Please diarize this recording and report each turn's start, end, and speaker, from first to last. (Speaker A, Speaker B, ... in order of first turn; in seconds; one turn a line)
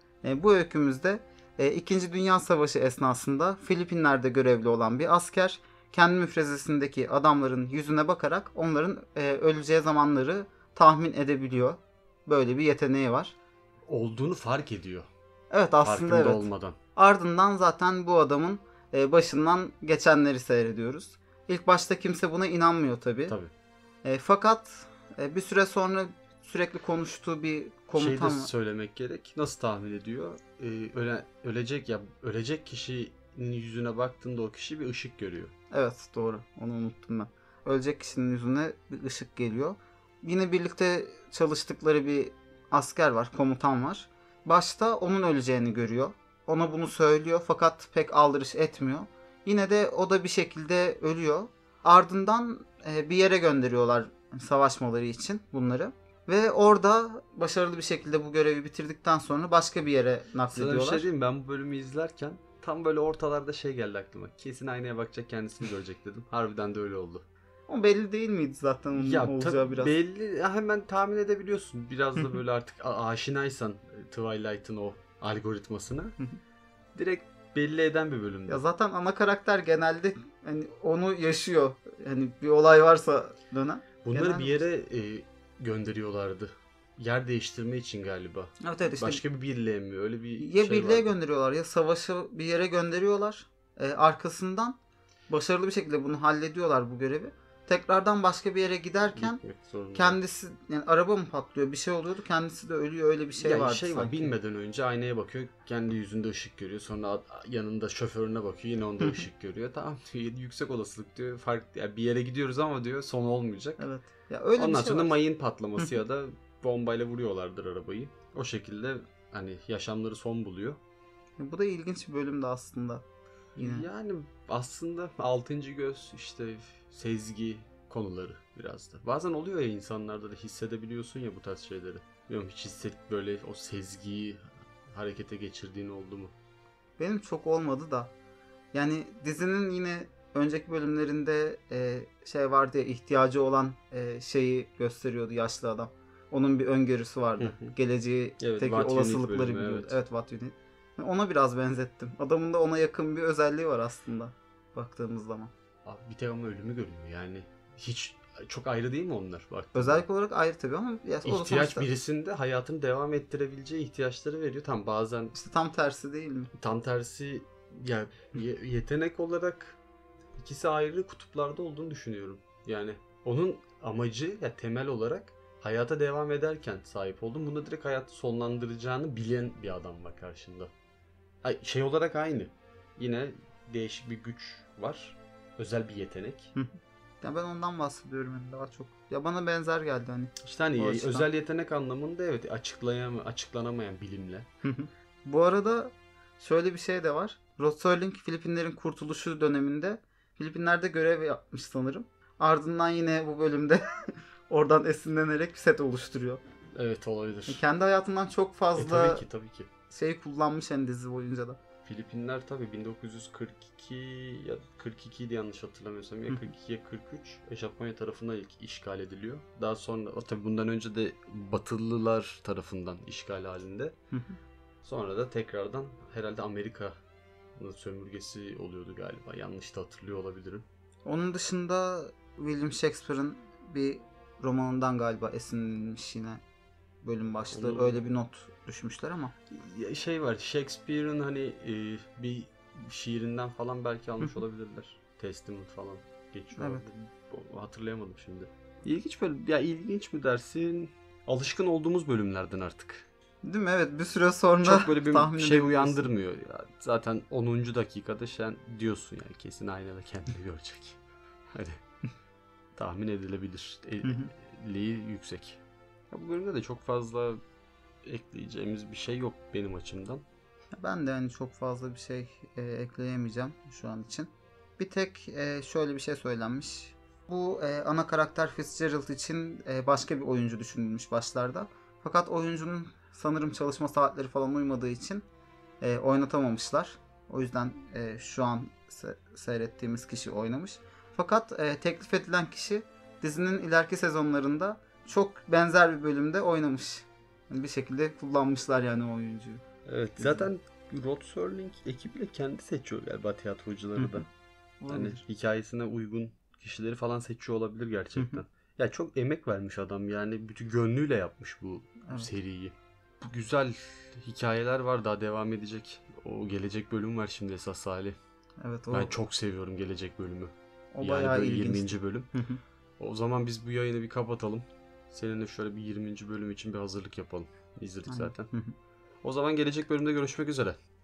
Speaker A: 0.2-13.4
Speaker B: 13.9-15.1
Speaker A: 15.5-23.4
Speaker B: 15.8-16.8
Speaker B: 23.3-23.5
Speaker A: 24.0-28.5
Speaker B: 27.9-35.5
Speaker A: 35.7-61.0
Speaker B: 60.5-67.2
Speaker A: 67.7-69.9
Speaker B: 68.9-76.2
Speaker B: 76.9-78.6
Speaker A: 78.5-84.6
Speaker B: 84.0-91.1
Speaker A: 88.6-89.2
Speaker A: 90.4-99.4
Speaker B: 99.1-100.2
Speaker A: 99.9-104.3
Speaker B: 103.4-113.8
Speaker A: 113.8-115.2
Speaker B: 114.6-120.8
Speaker A: 121.4-123.0
Speaker B: 123.5-136.3
Speaker A: 123.6-123.8
Speaker A: 137.0-138.1
Speaker A: 138.7-155.5
Speaker B: 147.4-147.8
Speaker B: 148.4-150.0
Speaker B: 155.8-160.0
Speaker A: 159.7-161.9
Speaker B: 161.2-165.3
Speaker A: 165.3-166.5
Speaker B: 166.5-169.8
Speaker B: 170.3-180.7
Speaker B: 181.4-186.5
Speaker A: 186.5-191.3
Speaker B: 190.4-194.5
Speaker A: 194.6-203.8
Speaker A: 204.5-206.4
Speaker B: 206.7-207.6
Speaker A: 207.5-209.2
Speaker B: 208.8-209.7
Speaker A: 209.9-211.6
Speaker B: 211.8-223.9
Speaker A: 224.1-224.4
Speaker B: 224.8-226.9
Speaker B: 227.6-230.6
Speaker A: 231.0-236.4
Speaker A: 237.0-239.3
Speaker B: 237.5-238.0
Speaker B: 239.5-253.1
Speaker A: 246.6-246.9
Speaker A: 253.4-256.1
Speaker B: 254.6-261.0
Speaker B: 261.5-261.8
Speaker B: 262.8-267.4
Speaker A: 264.0-264.3
Speaker B: 268.0-270.2
Speaker A: 270.8-285.3
Speaker A: 285.8-299.6
Speaker B: 299.9-304.3
Speaker A: 300.2-300.5
Speaker A: 303.9-304.2
Speaker A: 304.8-305.2
Speaker B: 304.9-318.2
Speaker A: 308.1-308.4
Speaker A: 312.0-312.3
Speaker A: 318.6-319.1
Speaker B: 318.9-322.3
Speaker A: 320.9-322.6
Speaker B: 323.0-328.5
Speaker A: 328.1-328.7
Speaker B: 329.2-330.8